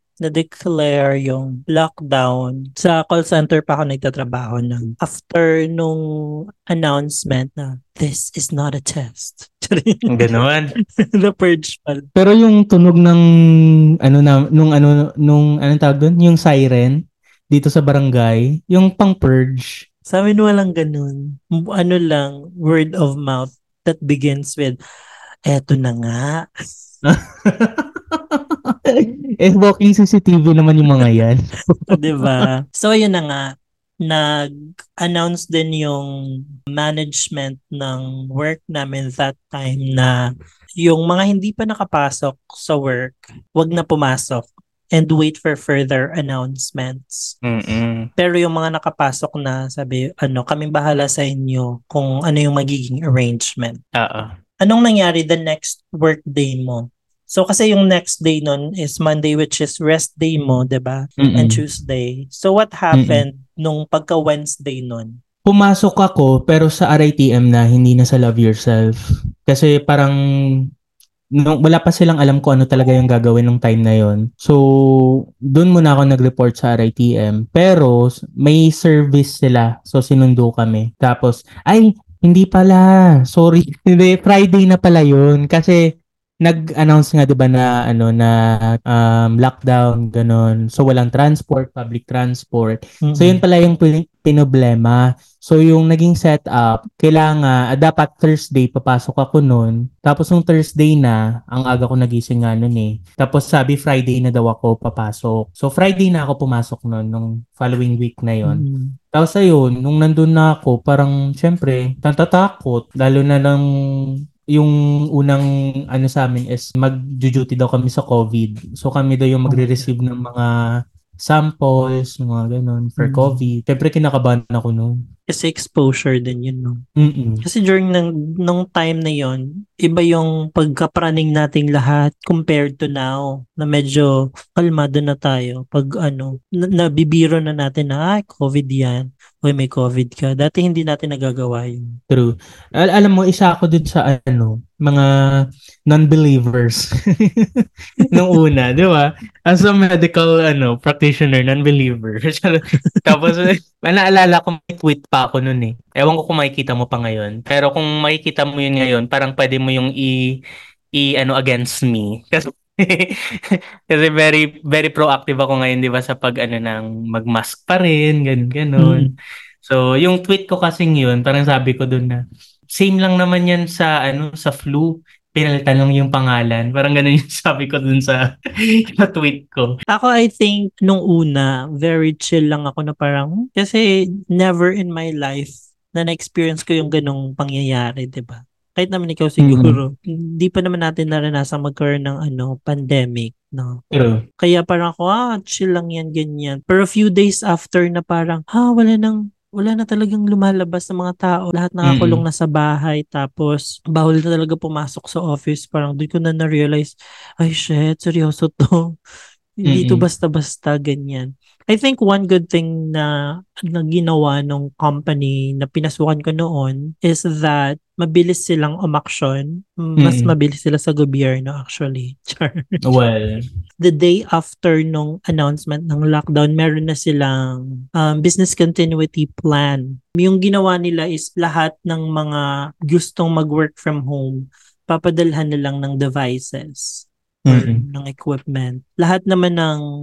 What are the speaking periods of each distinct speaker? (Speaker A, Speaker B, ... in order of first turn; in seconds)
Speaker A: 0.2-6.0, 6.7-10.2, 11.1-12.1, 20.1-24.8, 25.5-26.4, 31.9-33.5, 34.0-34.4, 35.0-36.1, 36.7-40.1, 40.8-47.3, 48.2-53.8, 54.6-65.1, 93.0-93.4, 108.5-109.0, 119.5-119.9, 123.0-123.4, 125.3-126.8, 127.4-141.9, 148.0-148.3, 152.8-153.3, 168.8-169.1, 179.9-193.8, 194.4-208.8, 209.6-213.1, 213.7-222.7, 223.8-239.8
Speaker B: 10.1-10.7, 12.2-13.2, 14.1-17.0, 17.5-19.8, 27.1-31.9, 47.4-48.1, 54.0-54.3, 61.2-61.6, 62.9-63.2, 65.5-68.9, 69.5-70.2, 71.4-74.6, 75.5-85.8, 86.5-88.3, 88.9-113.6, 114.5-120.5, 121.2-124.9, 127.0-127.4, 142.1-145.1, 145.9-160.2, 161.0-169.1, 169.6-172.2, 172.8-178.2, 178.8-179.7, 189.4-189.8, 193.9-194.2, 201.9-202.2, 209.7-210.0, 220.0-220.3, 222.8-223.4, 237.5-237.8